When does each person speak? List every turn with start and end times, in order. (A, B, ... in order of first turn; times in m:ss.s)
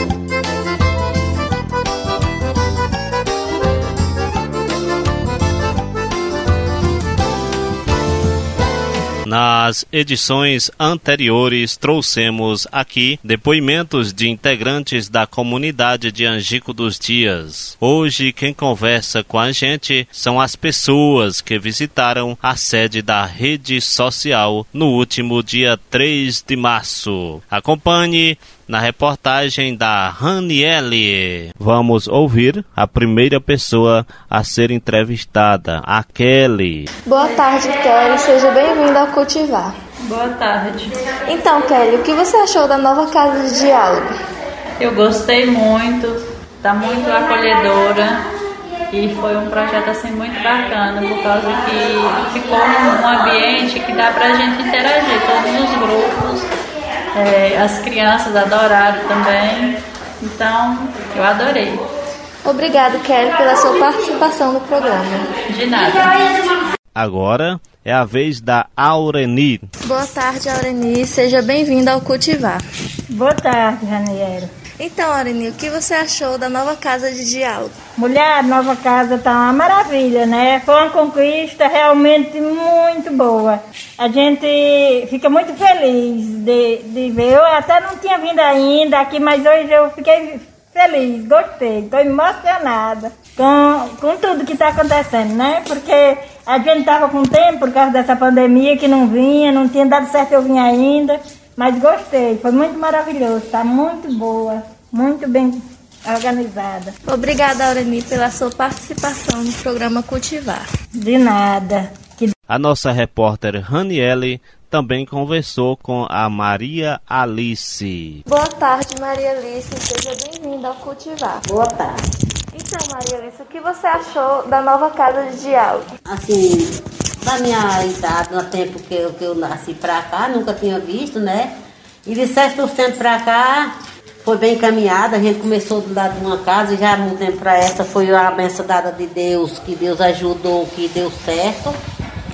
0:09.2-0:36.9 A
0:37.1-0:39.8 B
0:40.0-0:41.0 C
0:41.3-0:44.1 B
0:44.8-0:48.3 C
0:48.9-0:56.5 C
0:57.2-1:01.8 C
1:02.4-1:05.3 B
1:05.5-1:06.3 C
1:07.0-1:09.7 A
1:09.8-1:12.6 B
1:13.1-1:14.5 D
1:14.8-1:17.8 B
1:18.0-1:46.9 D
1:47.0-1:50.7 B
1:51.0-1:52.3 D
1:52.5-1:58.2 A
1:58.3-2:01.4 B
2:01.4-2:02.0 E
2:02.5-2:05.8 B
2:06.0-2:11.5 E
2:12.0-2:13.7 E
2:14.2-2:21.8 E